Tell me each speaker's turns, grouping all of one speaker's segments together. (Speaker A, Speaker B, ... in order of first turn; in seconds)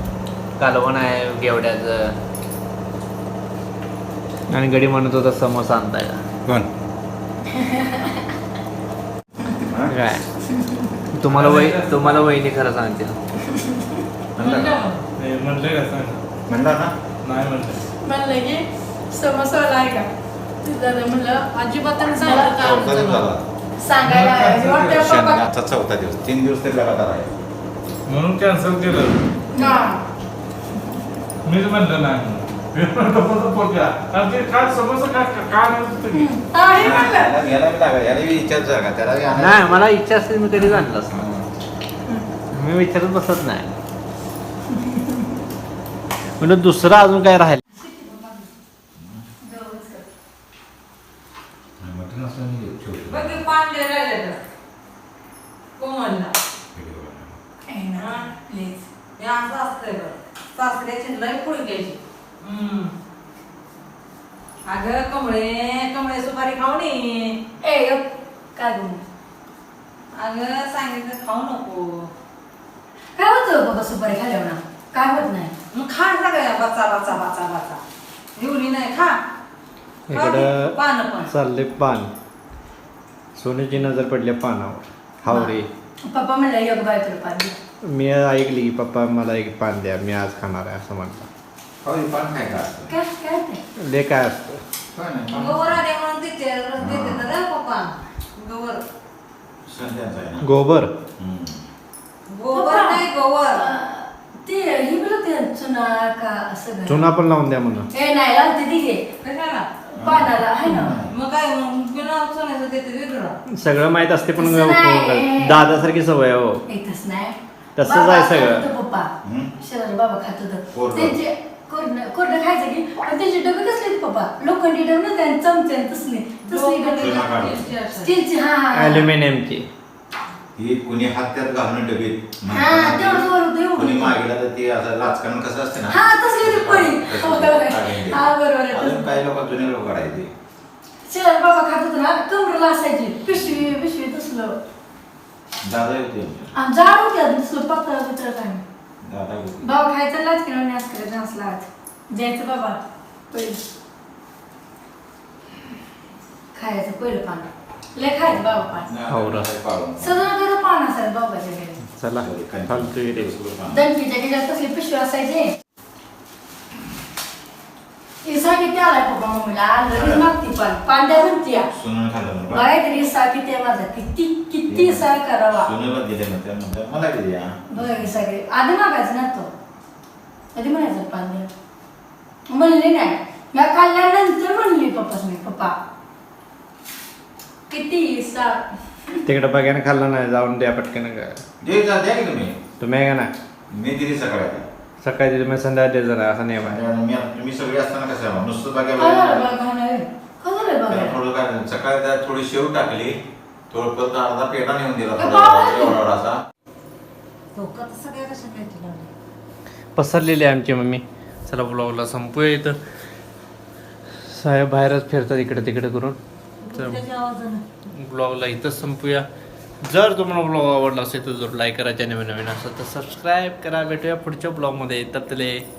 Speaker A: 0.6-2.1, 4.5-6.2, 9.9-10.2, 11.1-13.2, 15.2-16.2, 17.3-17.8, 39.3-41.2, 42.5-43.7, 46.4-47.6, 80.1-80.7, 81.3-82.1, 83.3-85.7, 87.9-91.3, 93.8-94.6, 100.4-100.9, 106.8-107.9, 113.5-116.6, 117.8-118.7, 128.7-129.7, 159.1-159.5, 161.9-163.3, 189.2-191.4, 192.8-193.3, 195.0-196.8, 209.9-212.8, 214.3-216.2, 216.7-217.0, 217.9-219.2, 219.8-225.6
Speaker B: 7.6-8.1, 13.5-13.9, 18.0-20.1, 20.6-22.9, 23.8-25.4, 29.5-30.0, 36.1-37.3, 47.8-48.5, 49.4-50.1, 57.7-58.9, 67.6-69.0, 73.2-75.5, 85.2-87.5, 92.9-93.6, 102.5-107.1, 107.9-109.0, 109.9-111.0, 114.4-115.7, 116.7-127.3, 128.0-129.1, 132.5-134.2, 135.9-139.1, 141.1-144.6, 146.5-148.6, 149.6-153.6, 156.5-158.9, 160.0-161.8, 163.7-165.5, 168.2-171.7, 172.5-175.7, 177.7-179.5, 180.5-181.5, 182.5-185.7, 187.7-189.2, 199.0-201.2, 205.2-205.9
Speaker C: 9.5-9.9, 14.4-14.8, 16.5-16.9, 22.5-23.4, 24.8-27.3, 36.7-39.9, 41.1-41.5, 51.8-53.4, 56.7-57.3, 91.8-92.9, 94.9-95.8, 96.8-97.3, 99.7-100.5, 101.2-101.6, 110.0-111.1, 119.2-119.5, 120.7-121.2, 127.0-127.7, 130.6-140.3, 145.6-146.5, 149.0-149.7, 158.8-160.2, 162.2-163.8, 169.9-170.3, 171.7-172.7, 174.7-178.0, 191.6-192.6, 193.7-194.7, 196.6-199.5, 200.9-203.2, 203.7-206.4
Speaker D: 11.2-12.3, 17.2-17.7, 24.0-24.9, 28.1-29.1, 31.4-36.3
Speaker E: 14.4-15.0, 21.9-23.2, 53.1-54.4, 55.8-56.3, 58.0-58.2, 59.2-62.9, 64.7-67.4, 70.1-72.1, 75.7-77.8, 78.3-79.2, 80.1-81.3, 95.3-98.8, 102.3-103.7, 109.2-109.7, 111.0-113.3, 126.4-128.1, 207.5-209.1, 216.6-217.6